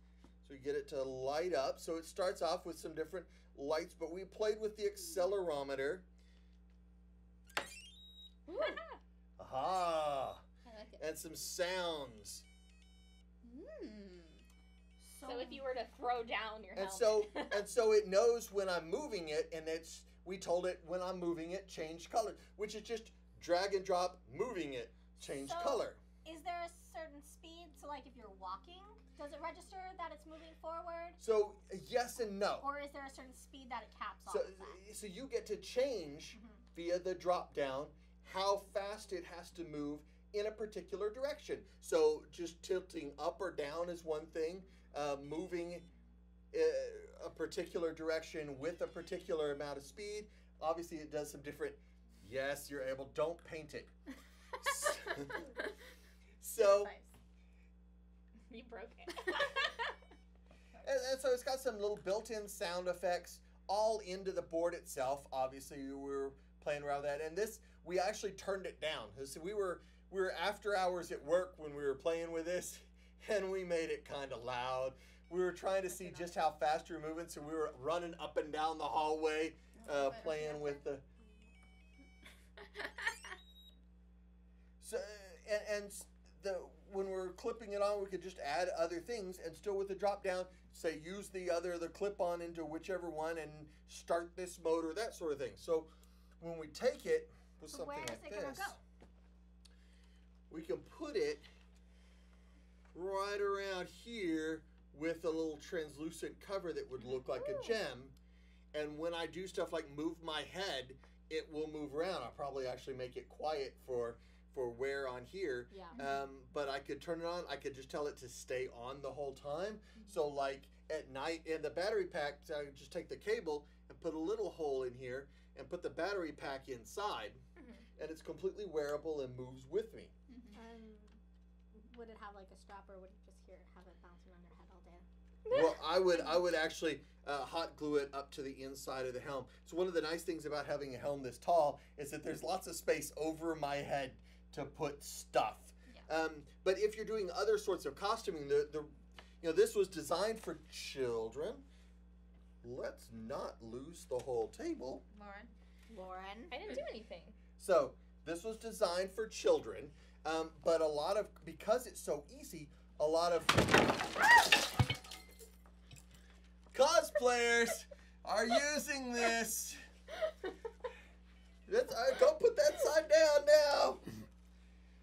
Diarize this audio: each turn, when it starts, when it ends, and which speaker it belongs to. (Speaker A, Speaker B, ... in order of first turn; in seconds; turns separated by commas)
Speaker A: 0.4-6.0, Speaker B: 8.5-8.8, Speaker A: 9.4-10.4, Speaker B: 10.7-11.0, Speaker A: 11.0-12.4, Speaker B: 13.4-14.4, Speaker C: 15.0-15.6, Speaker D: 15.2-17.6, Speaker A: 16.7-26.0, Speaker C: 25.2-31.2, Speaker A: 31.2-32.6, Speaker C: 32.6-34.8, Speaker A: 34.3-45.9, Speaker C: 36.3-36.6, Speaker A: 46.5-53.9, Speaker A: 54.6-55.5, Speaker A: 56.4-56.9, Speaker B: 56.7-57.0, Speaker D: 58.5-59.8, Speaker A: 60.8-81.0, Speaker B: 75.9-76.3, Speaker B: 79.8-80.8, Speaker A: 84.8-98.8, Speaker C: 97.7-98.8, Speaker A: 100.5-101.5, Speaker A: 102.9-108.1, Speaker A: 108.7-127.4, Speaker C: 115.7-116.0, Speaker A: 128.0-130.1, Speaker C: 130.5-131.2, Speaker C: 131.7-135.1, Speaker B: 135.4-136.4, Speaker A: 135.5-151.6, Speaker A: 152.6-155.1, Speaker B: 155.1-155.5, Speaker C: 155.9-156.6, Speaker D: 156.5-157.4, Speaker A: 157.6-164.1, Speaker A: 166.7-169.8, Speaker A: 171.7-174.1